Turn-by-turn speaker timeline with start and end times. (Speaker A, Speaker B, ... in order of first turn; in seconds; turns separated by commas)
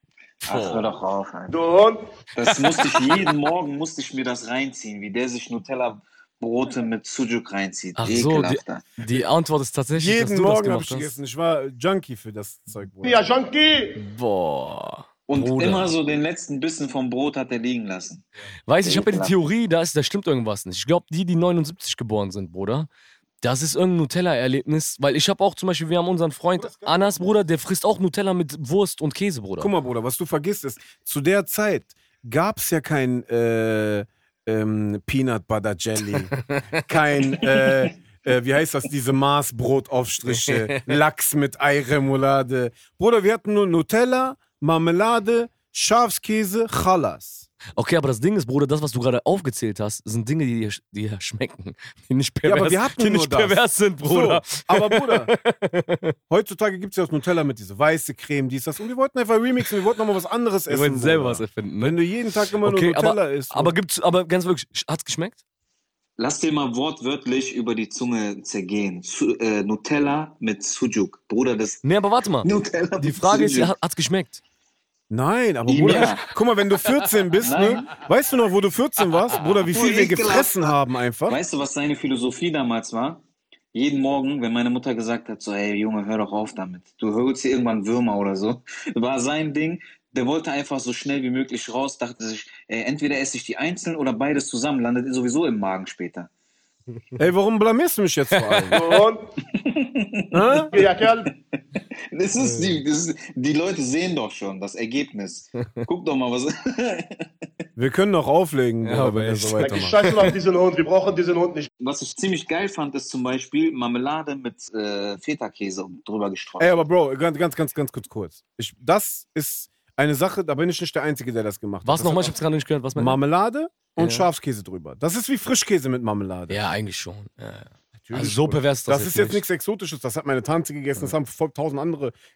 Speaker A: 0.4-0.9, Speaker B: 0.4-1.6, Speaker C: 1.5-2.1, Speaker B: 2.3-8.8, Speaker C: 2.7-3.0, Speaker A: 8.0-11.1, Speaker D: 10.0-13.3, Speaker C: 13.0-14.0, Speaker A: 13.9-15.9, Speaker B: 15.3-18.2, Speaker A: 18.7-22.9, Speaker B: 18.8-19.5, Speaker A: 23.4-29.7, Speaker D: 26.6-27.0, Speaker D: 29.6-47.5, Speaker A: 36.3-36.8, Speaker A: 40.3-41.0, Speaker A: 47.8-56.1, Speaker D: 52.5-55.3, Speaker D: 56.3-63.7, Speaker A: 60.7-62.0, Speaker A: 62.6-65.4, Speaker B: 66.2-71.8, Speaker A: 71.8-74.4, Speaker B: 72.4-73.7, Speaker D: 75.1-81.4, Speaker B: 75.7-76.3, Speaker B: 77.4-77.9, Speaker B: 79.7-80.6, Speaker B: 81.3-83.2, Speaker B: 83.7-96.3, Speaker D: 97.2-98.8, Speaker A: 98.3-99.0, Speaker C: 98.7-99.2, Speaker B: 99.5-100.6, Speaker D: 100.3-100.7, Speaker C: 100.7-101.3, Speaker B: 101.7-107.3, Speaker A: 102.4-102.8, Speaker D: 107.8-110.0, Speaker A: 108.8-110.3, Speaker C: 109.6-111.7, Speaker B: 111.8-116.8, Speaker D: 116.6-122.4, Speaker A: 121.8-123.2, Speaker D: 123.0-126.6, Speaker A: 124.0-124.3, Speaker A: 126.5-129.4, Speaker D: 128.0-132.2